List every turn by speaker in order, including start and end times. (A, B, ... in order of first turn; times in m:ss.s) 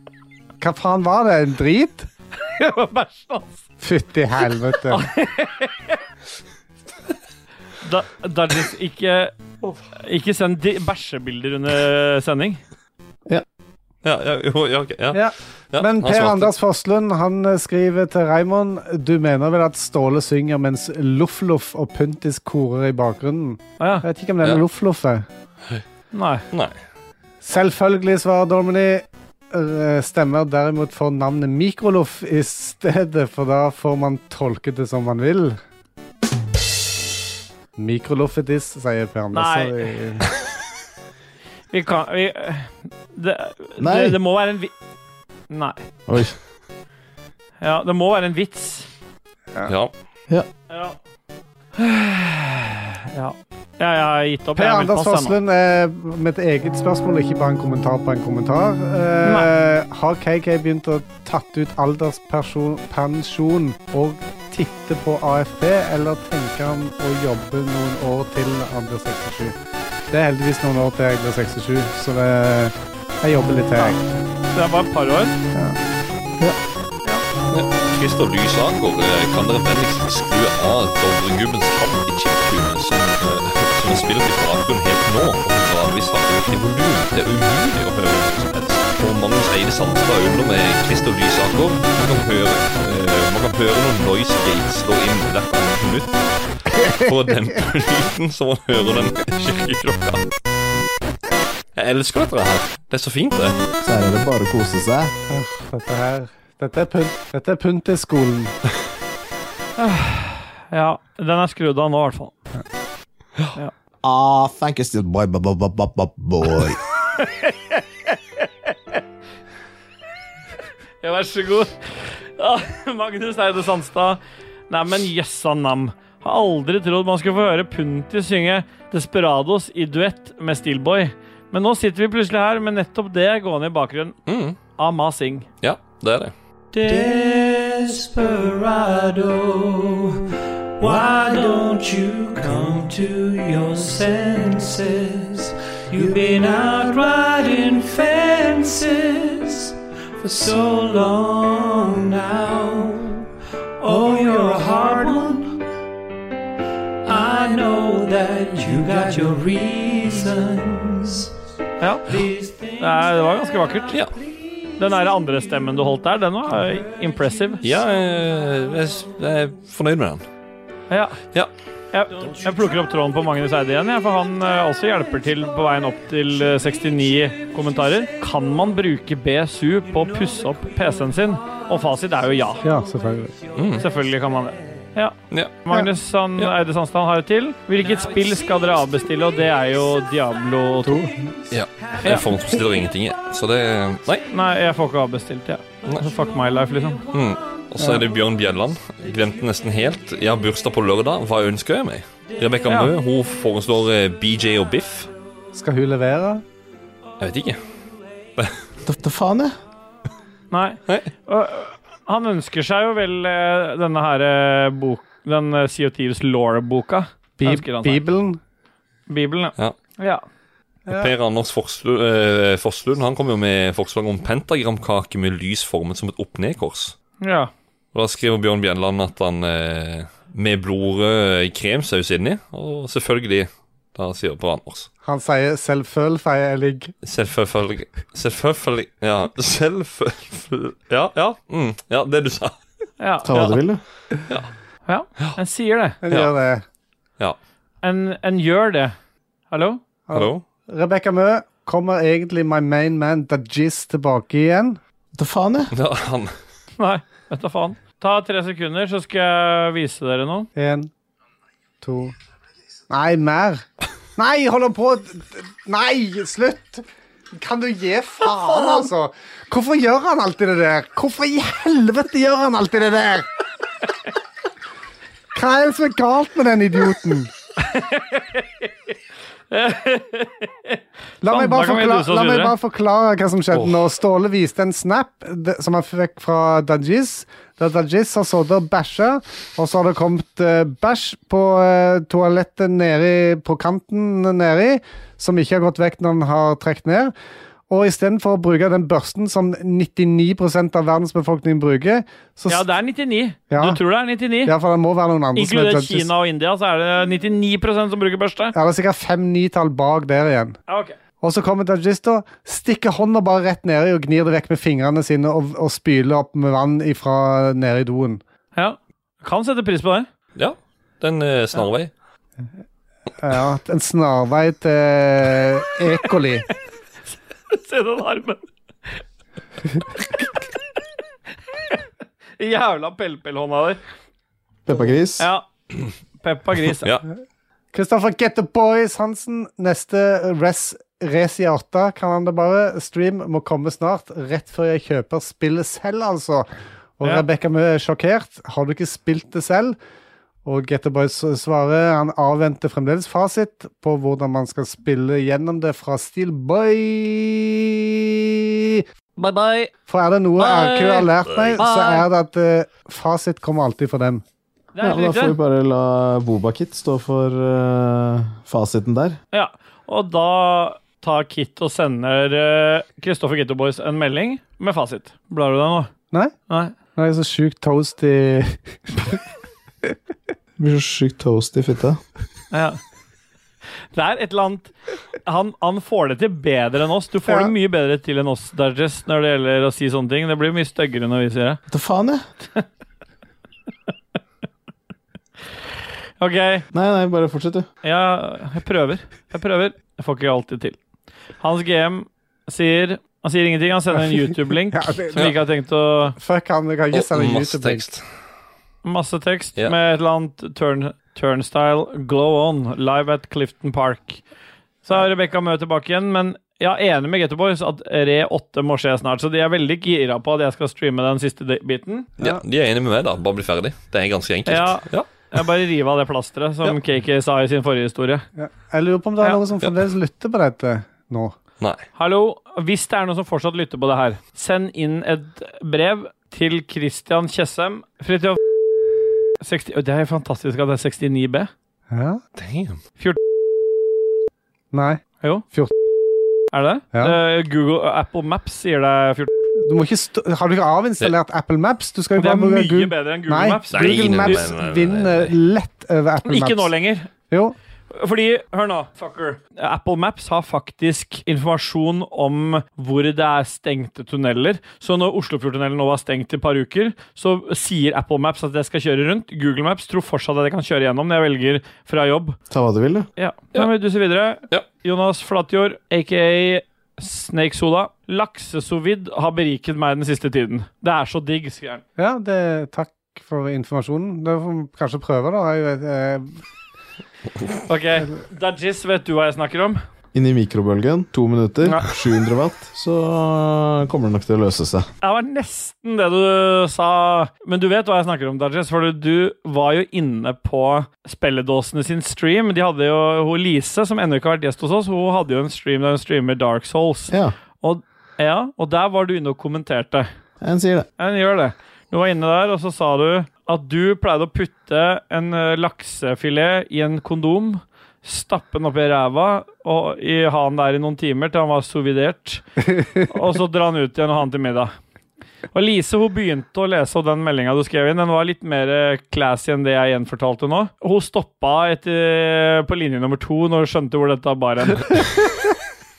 0:00.6-0:02.1 A
0:02.4-0:03.6 B
0:03.8-0:05.0 A
0:04.9-0:06.0 B
0:07.8-0:09.3 B
0:10.0-0:12.6 B
0:14.0-0:16.5 C
0:15.1-0:25.2 A
0:23.8-0:24.0 B
0:26.1-0:26.4 B
0:27.4-0:35.6 A
0:37.8-0:40.3 A
0:39.3-0:39.9 B
0:41.7-0:44.7 B
0:43.8-0:44.2 D
0:45.5-0:45.8 B
0:46.1-0:46.3 D
0:47.6-0:48.9 B
0:49.7-0:49.9 C
0:50.7-0:51.0 B
0:51.8-0:55.3 B
0:54.6-1:09.6 A
1:10.1-1:14.2 A
1:14.5-1:15.4 B
1:17.5-1:40.2 C
1:41.7-1:43.6 C
1:43.8-1:45.1 D
1:45.3-1:48.6 A
1:49.8-1:52.3 B
1:54.0-1:56.8 E
1:57.1-1:58.2 B
2:01.0-2:14.2 B
2:14.3-2:14.6 C
2:14.8-2:15.5 B
2:15.6-2:16.3 C
2:16.7-2:20.2 F
2:20.8-2:35.6 F
2:37.0-2:41.3 F
2:41.8-2:42.2 B
2:42.1-2:43.1 F
2:42.8-2:44.0 B
2:44.8-2:47.6 B
2:47.6-2:50.2 C
2:50.9-2:51.2 B
2:51.9-3:02.6 B
3:02.6-3:03.3 A
3:03.5-3:03.8 C
3:03.8-3:11.1 B
3:10.8-3:11.3 A
3:11.5-3:14.3 C
3:14.3-3:17.0 B
3:17.1-3:25.1 C
3:17.8-3:18.0 A
3:25.5-3:26.4 A
3:27.2-3:27.6 C
3:28.8-3:29.5 D
3:30.5-3:38.0 B
3:37.4-3:38.4 A
3:39.1-3:40.2 B
3:40.9-3:46.9 C
3:47.2-3:47.5 B
3:47.9-3:54.9 C
3:55.0-3:56.9 A
3:57.0-4:02.5 C
4:03.0-4:03.6 B
4:03.2-4:03.8 D
4:04.8-4:06.0 B
4:06.0-4:06.6 A
4:07.8-4:08.9 B
4:09.5-4:09.8 B
4:10.1-4:14.8 A
4:10.1-4:10.4 C
4:15.1-4:15.7 D
4:15.7-4:16.3 C
4:16.8-4:20.5 B
4:20.5-4:20.9 A
4:21.8-4:22.1 A
4:22.9-4:33.3 A
4:35.3-4:37.3 A
4:37.6-4:38.7 B
4:39.5-4:42.5 B
4:41.2-4:57.1 A
4:57.7-5:02.7 A
5:02.5-5:04.5 B
5:03.5-5:03.8 A
5:04.4-5:06.1 A
5:05.3-5:08.5 B
5:08.5-5:10.6 A
5:10.7-5:11.0 B
5:11.2-5:18.2 A
5:18.5-5:20.1 B
5:20.4-5:21.9 C
5:23.2-5:26.4 A
5:27.5-5:28.4 B
5:32.4-5:33.8 B
5:34.6-5:35.3 D
5:35.2-5:35.5 B
5:36.2-5:36.9 B
5:37.7-5:49.8 A
5:50.4-5:58.8 A
5:59.2-5:59.6 B
5:59.9-6:04.2 A
6:00.4-6:01.1 B
6:01.2-6:01.6 C
6:01.6-6:02.0 B
6:04.7-6:05.3 B
6:04.8-6:09.2 D
6:09.3-6:15.9 B
6:16.5-6:16.7 B
6:16.9-6:19.2 A
6:20.6-6:22.0 D
6:22.5-6:22.8 B
6:23.9-6:24.7 B
6:25.2-6:31.6 B
6:27.3-6:27.5 A
6:31.7-6:32.2 D
6:36.2-6:36.6 B
6:36.7-6:37.6 D
6:37.8-6:40.8 B
6:41.4-6:46.2 B
6:44.7-6:45.3 A
6:46.2-6:47.8 A
6:46.9-6:48.0 C
6:48.8-6:54.2 B
6:54.8-7:02.1 B
7:02.2-7:05.3 C
7:04.5-7:08.2 B
7:08.4-7:11.4 A
7:12.0-7:18.4 B
7:19.4-7:21.5 B
7:21.9-7:22.2 A
7:22.4-7:22.8 C
7:24.7-7:25.7 A
7:26.5-7:29.3 B
7:29.6-7:36.7 A
7:32.2-7:34.4 B
7:33.7-7:35.3 C
7:36.2-7:37.1 B
7:37.3-7:37.6 A
7:37.9-7:52.4 B
7:52.5-7:53.1 D
7:53.2-8:01.8 B
8:02.0-8:06.4 A
8:07.7-8:09.8 B
8:10.1-8:14.9 D
8:15.0-8:30.1 B
8:30.4-8:30.9 D
8:31.0-8:44.7 B
8:45.5-8:55.1 B